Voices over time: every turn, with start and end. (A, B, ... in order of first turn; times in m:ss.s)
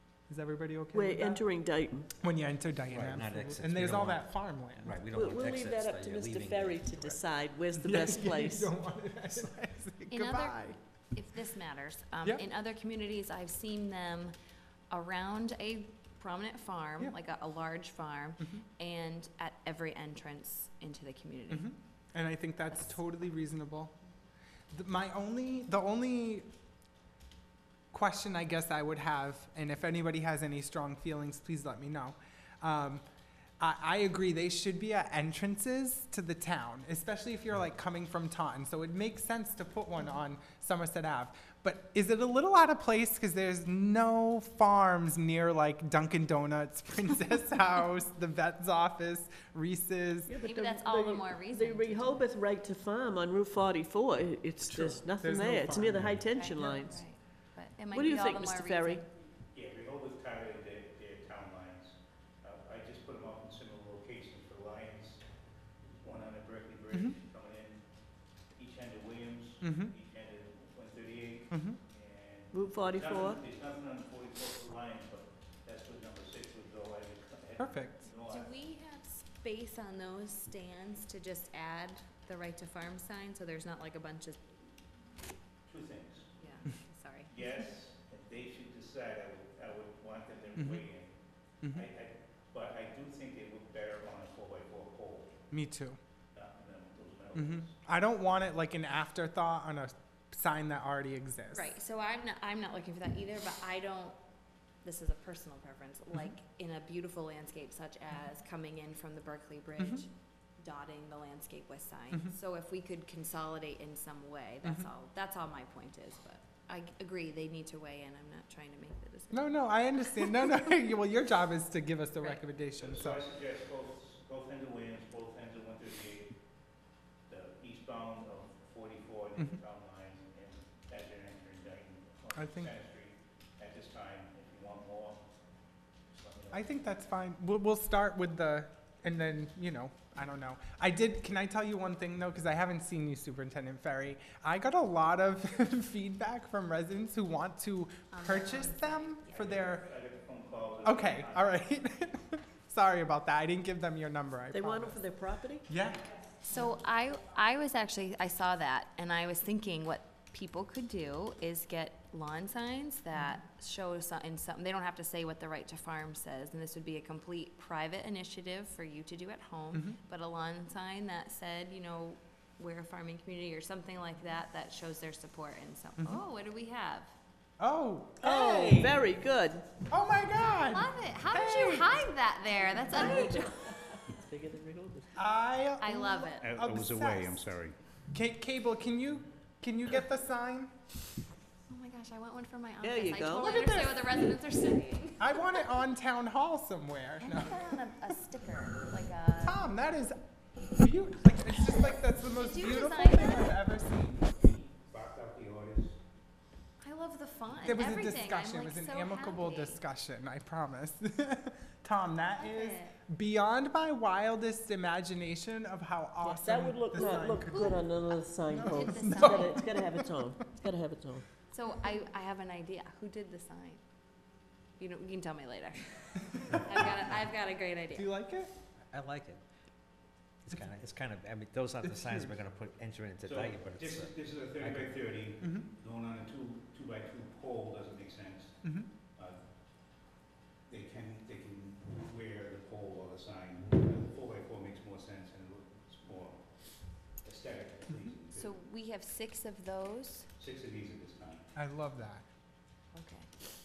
0:00.3-0:01.4 A
0:00.9-0:02.1 B
0:02.2-0:04.9 A
0:02.9-0:07.2 C
0:05.2-0:08.7 B
0:07.8-0:10.7 A
0:10.1-0:14.3 D
0:14.9-0:21.7 D
0:21.5-0:23.9 A
0:24.7-0:26.5 A
0:27.9-0:33.0 A
0:33.6-0:50.3 A
0:50.3-0:57.0 B
0:50.4-0:52.2 D
0:54.7-0:56.2 A
0:56.3-0:59.0 D
0:57.9-0:59.0 B
0:59.5-1:05.2 E
1:06.0-1:07.8 E
1:08.6-1:18.5 E
1:09.6-1:09.9 A
1:11.5-1:11.8 A
1:12.5-1:13.4 B
1:17.6-1:18.1 A
1:18.3-1:24.4 D
1:25.6-1:26.3 E
1:26.4-1:27.5 D
1:27.3-1:31.2 E
1:30.6-1:30.8 A
1:31.7-1:35.4 E
1:35.5-1:36.0 A
1:36.3-1:37.7 E
1:37.3-1:41.7 A
1:41.5-1:44.2 D
1:44.8-2:00.3 D
1:49.8-1:50.0 A
1:59.3-2:03.2 A
2:02.8-2:06.3 E
2:07.3-2:15.2 E
2:12.4-2:12.7 A
2:16.1-2:16.7 E
2:16.5-2:29.9 A
2:28.1-2:29.6 D
2:29.3-2:31.6 E
2:30.8-2:35.0 A
2:34.5-2:35.6 B
2:35.6-2:36.0 A
2:36.4-2:57.1 D
2:43.1-2:43.4 A
2:49.7-2:50.0 A
2:56.0-2:56.2 A
2:57.6-2:59.0 A
2:58.2-2:59.7 B
2:59.9-3:02.0 A
3:00.5-3:03.6 D
3:02.9-3:05.2 B
3:05.1-3:07.4 A
3:05.8-3:06.6 D
3:06.4-3:07.8 E
3:08.1-3:10.7 A
3:11.7-3:15.6 D
3:12.8-3:13.6 B
3:13.4-3:14.1 A
3:15.2-3:17.8 A
3:17.2-3:19.6 D
3:19.4-3:20.2 A
3:20.8-3:24.3 A
3:22.3-3:23.6 D
3:24.2-3:26.0 E
3:26.8-3:29.8 D
3:27.6-3:37.8 A
3:32.3-3:33.0 D
3:36.2-3:41.2 B
3:37.4-3:37.9 D
3:38.5-3:40.1 A
3:38.7-3:39.5 D
3:41.5-3:43.8 D
3:44.8-3:48.1 D
3:47.9-3:48.5 A
3:48.9-3:49.4 C
3:50.4-3:54.9 C
3:51.8-3:52.3 A
3:53.2-3:59.4 E
3:55.4-3:55.7 A
3:58.6-3:58.9 A
4:00.7-4:06.4 E
4:07.2-4:08.6 E
4:08.3-4:10.3 D
4:10.4-4:11.4 E
4:11.5-4:12.2 A
4:12.9-4:13.3 D